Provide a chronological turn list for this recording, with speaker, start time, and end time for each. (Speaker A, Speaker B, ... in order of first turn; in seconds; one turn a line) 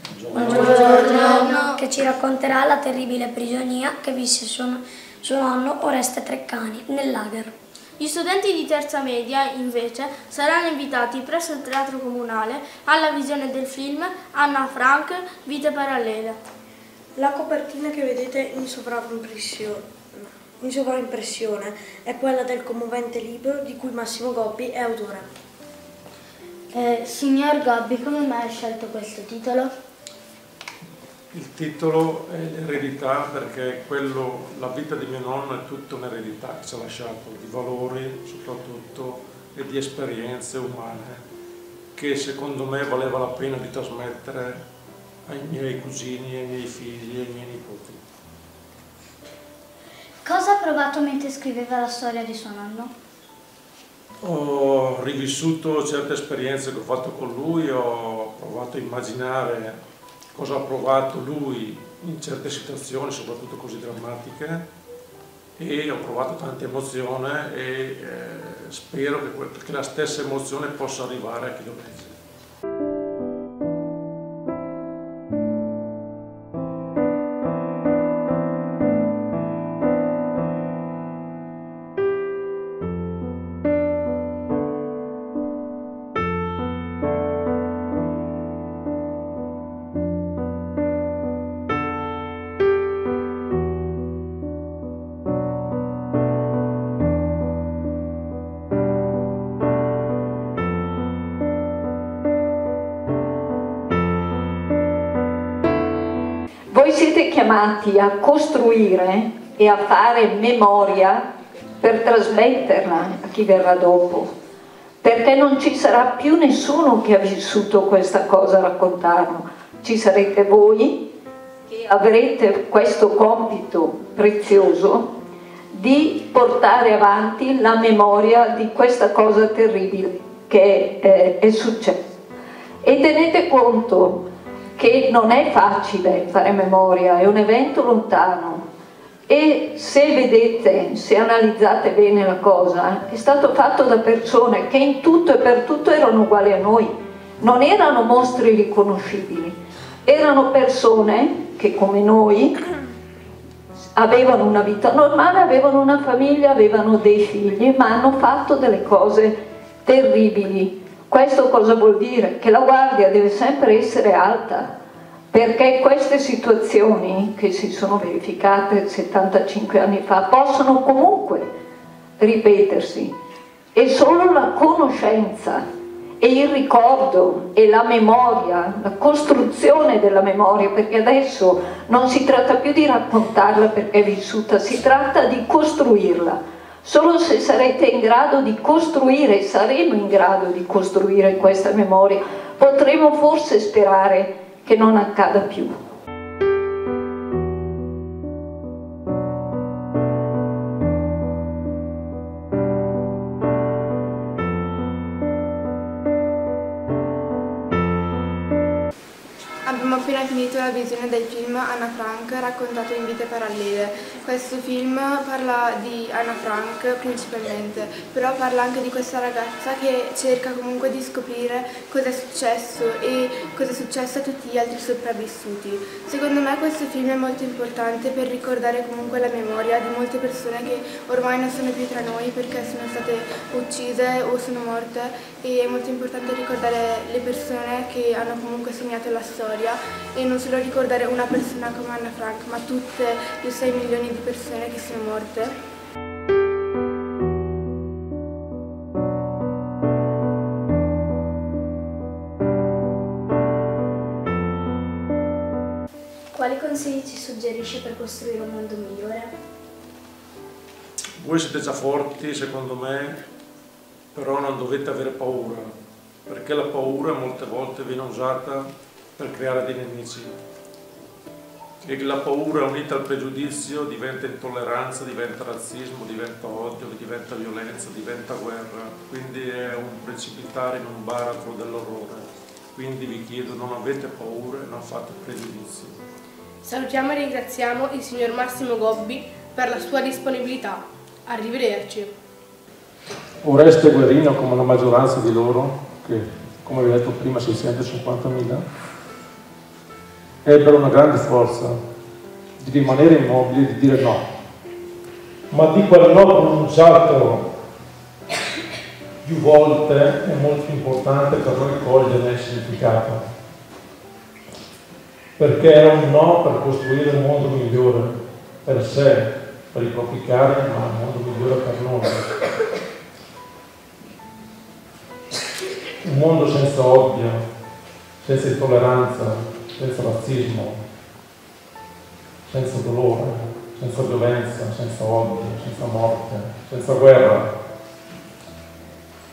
Speaker A: 0.1-1.2
Speaker B: 0.3-0.8
Speaker C: 0.6-1.8
Speaker B: 1.3-7.5
Speaker C: 8.0-16.4
Speaker D: 17.2-25.3
Speaker E: 26.7-29.7
Speaker A: 31.3-41.2
Speaker A: 42.0-44.6
Speaker A: 45.3-48.0
Speaker E: 50.2-52.9
Speaker A: 54.2-59.8
Speaker A: 60.4-64.7
Speaker A: 65.6-72.2
Speaker F: 106.7-111.3
Speaker F: 111.8-114.3
Speaker F: 115.0-121.1
Speaker F: 121.7-125.2
Speaker F: 125.7-132.1
Speaker F: 132.8-138.6
Speaker F: 139.3-152.6
Speaker F: 153.9-164.7
Speaker F: 165.3-171.5
Speaker F: 172.2-173.2
Speaker F: 173.8-175.6
Speaker F: 176.2-195.7
Speaker G: 209.7-245.5
Speaker E: 256.4-259.3
Speaker A: 261.2-263.2
Speaker A: 264.1-265.7
Speaker A: 266.3-270.3
Speaker A: 271.8-286.0
Speaker H: 286.6-290.8
Speaker H: 291.3-292.1
Speaker A: 293.4-298.6
Speaker A: 300.4-301.8
Speaker A: 302.6-304.2
Speaker A: 305.5-307.5
Speaker A: 309.2-313.2
Speaker A: 315.4-322.3
Speaker A: 326.0-327.4
Speaker A: 328.2-330.8
Speaker A: 332.5-337.5